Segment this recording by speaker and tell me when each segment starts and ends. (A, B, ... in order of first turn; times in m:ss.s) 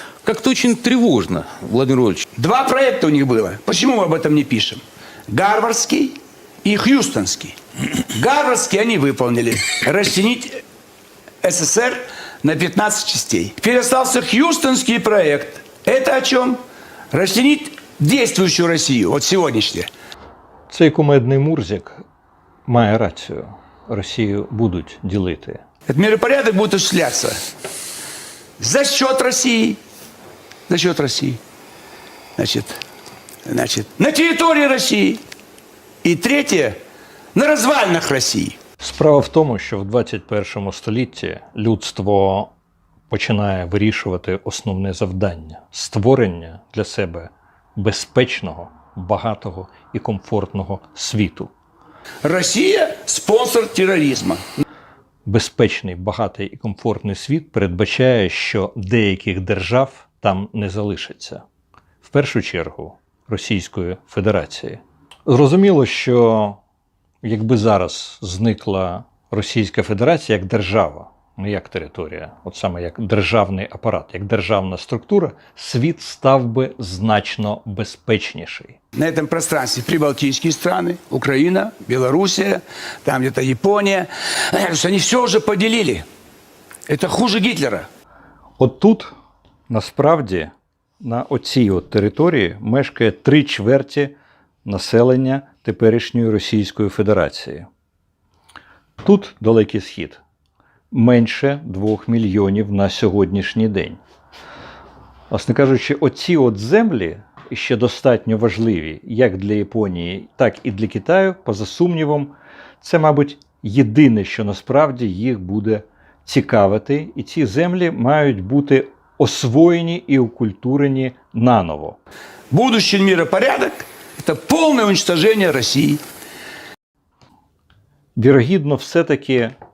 0:00.2-0:02.2 A
0:02.4-0:10.6 B
0:11.4-0:16.6 B
0:17.1-0:19.9 B
0:20.7-0:22.0 C
0:22.7-0:25.6 C
0:25.9-0:27.4 B
0:28.6-0:29.8 B
0:30.7-0:31.4 B
0:32.4-0:32.8 B
0:33.4-0:35.2 B
0:36.0-0:36.8 B
0:37.3-0:38.6 B
0:38.8-0:42.5 C
0:43.1-0:51.5 C
0:52.2-0:54.4 B
0:55.3-1:01.4 C
1:02.0-1:06.6 C
1:07.2-1:18.8 C
1:18.9-1:26.0 B
1:26.9-1:27.9 B
1:28.6-1:29.1 C
1:29.7-1:34.1 C
1:34.7-1:37.7 C
1:39.0-1:40.2 C
1:40.9-1:44.0 C
1:45.3-2:02.0 C
2:02.5-2:06.0 B
2:08.2-2:09.5 C